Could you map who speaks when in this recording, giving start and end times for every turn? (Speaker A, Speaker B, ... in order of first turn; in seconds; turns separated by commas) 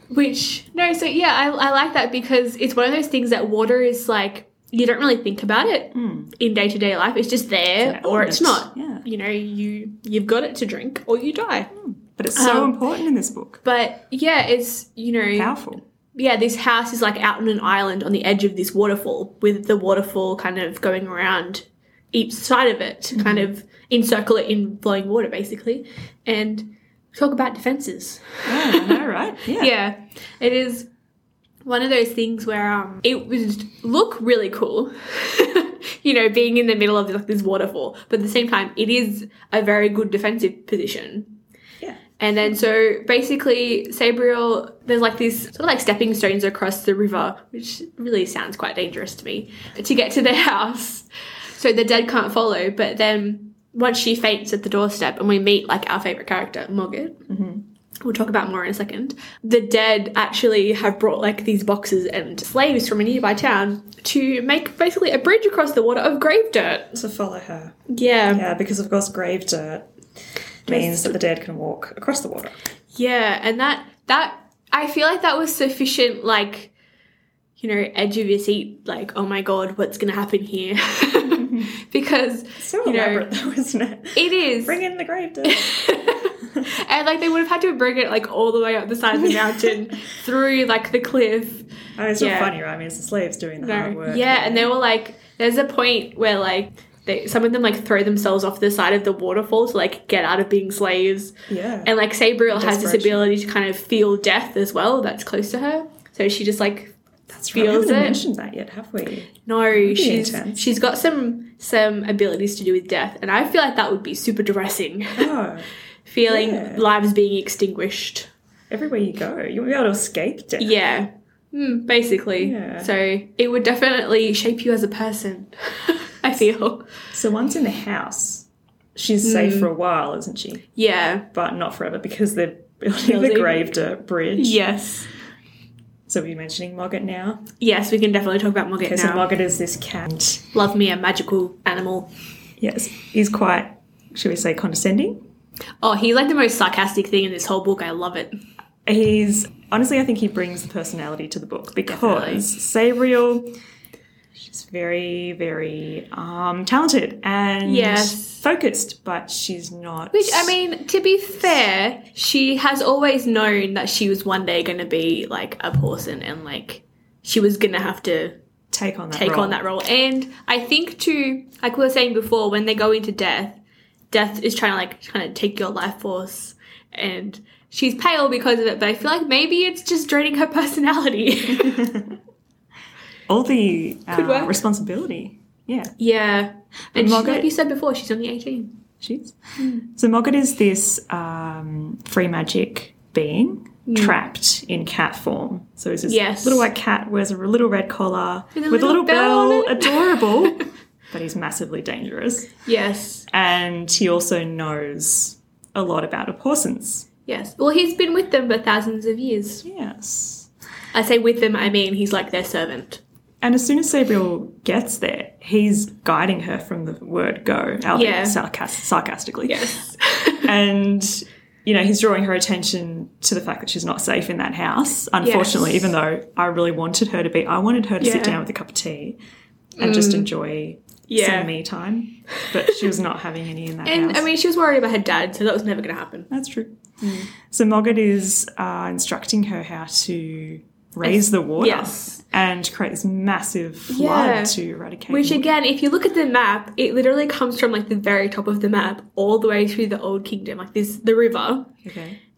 Speaker A: 0.1-11.7, Speaker B: 5.9-6.3, Speaker B: 7.8-9.1, Speaker B: 11.7-13.6, Speaker A: 12.3-12.8, Speaker A: 13.6-15.6, Speaker B: 15.3-15.8, Speaker A: 16.1-29.0, Speaker B: 23.1-23.5, Speaker B: 28.4-29.7, Speaker A: 29.5-30.9, Speaker A: 31.6-41.4, Speaker A: 42.2-57.3, Speaker B: 57.3-57.6, Speaker A: 58.0-67.0, Speaker B: 66.9-67.8, Speaker A: 67.9-68.4, Speaker B: 68.3-69.9, Speaker B: 70.7-72.5, Speaker A: 70.7-71.2, Speaker A: 72.9-76.7, Speaker A: 77.6-83.2, Speaker B: 81.2-81.7, Speaker B: 82.6-85.8, Speaker A: 84.1-84.8, Speaker A: 85.4-92.5, Speaker B: 89.2-89.8, Speaker B: 92.0-94.7, Speaker A: 93.6-107.0, Speaker B: 101.5-101.9, Speaker B: 102.5-103.3, Speaker B: 107.3-110.7, Speaker A: 107.5-108.2, Speaker A: 109.5-115.3, Speaker B: 115.2-115.7, Speaker A: 116.0-118.3, Speaker B: 116.3-116.8, Speaker B: 118.7-120.7, Speaker A: 120.6-126.9, Speaker B: 122.4-122.9, Speaker B: 127.1-130.7, Speaker A: 129.2-129.7, Speaker A: 130.8-131.3, Speaker B: 131.3-134.6, Speaker A: 133.0-133.7, Speaker A: 134.4-135.1, Speaker B: 136.1-137.5, Speaker A: 137.6-139.3, Speaker B: 138.8-140.4, Speaker A: 140.5-142.1, Speaker B: 142.6-145.2, Speaker A: 145.8-148.4, Speaker B: 148.8-153.5, Speaker A: 151.8-152.4, Speaker B: 154.4-160.6, Speaker A: 157.6-158.4, Speaker A: 160.1-168.4, Speaker B: 168.7-169.6, Speaker A: 169.1-173.6, Speaker A: 174.1-181.8, Speaker B: 181.5-182.2, Speaker B: 183.3-185.9, Speaker A: 184.1-184.6, Speaker A: 186.0-188.8, Speaker B: 186.9-187.5, Speaker B: 189.0-202.5, Speaker A: 189.6-189.9, Speaker A: 193.8-194.2, Speaker A: 196.1-196.7, Speaker A: 198.5-200.6, Speaker A: 202.7-203.3, Speaker B: 203.3-207.1, Speaker A: 207.3-209.6, Speaker B: 209.6-210.5, Speaker A: 210.9-213.0, Speaker B: 213.4-219.9, Speaker A: 217.9-218.4, Speaker A: 219.4-220.5, Speaker B: 220.4-229.2, Speaker A: 225.2-225.9, Speaker A: 228.0-228.4, Speaker A: 229.8-230.3, Speaker B: 229.8-234.2, Speaker A: 231.1-231.5, Speaker A: 232.4-232.8, Speaker A: 233.8-236.3, Speaker B: 236.3-245.5, Speaker A: 241.0-242.2, Speaker A: 243.9-244.6, Speaker A: 245.1-251.8, Speaker B: 251.8-252.2